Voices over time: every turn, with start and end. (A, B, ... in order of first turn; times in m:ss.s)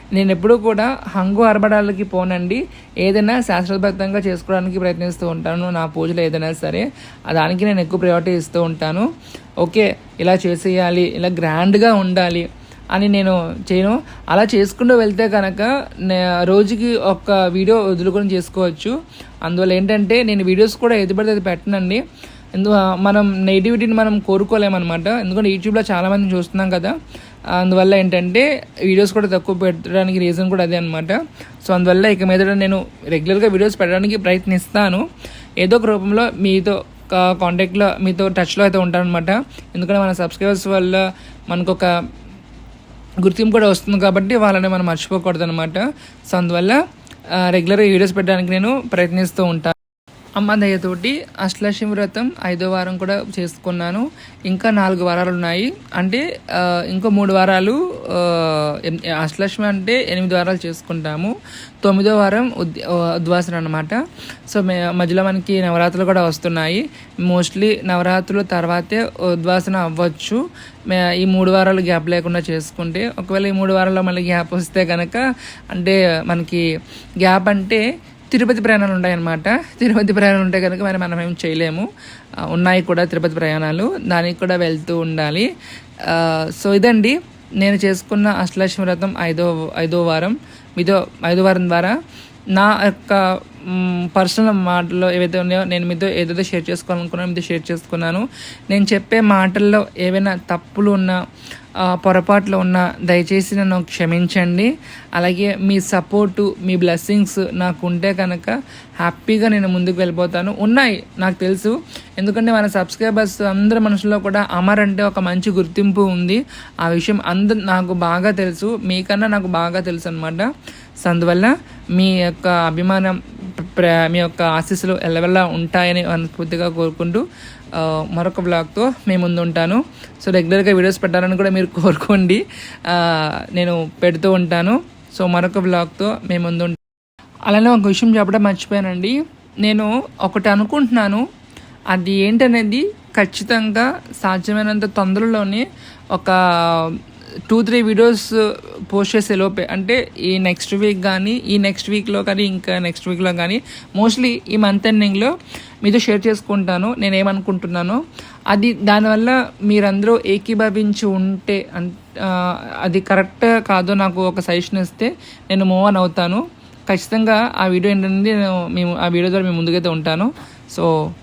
0:00.2-0:09.1 A
0:09.6-0:22.0 A
0:22.6-0:26.9 A
0:27.5-0:35.0 A
0:35.6-0:41.9 A
0:43.2-0:46.8 A
0:47.4-0:49.8 A
0:50.4-1:04.0 A
1:04.5-1:16.6 A
1:17.2-1:21.9 A
1:22.5-1:25.5 A
1:26.0-1:32.0 A
1:32.5-1:41.2 A
1:41.8-2:00.5 A
2:01.0-2:16.8 A
2:17.5-2:21.2 A
2:21.9-2:35.3 A
2:35.8-2:50.9 A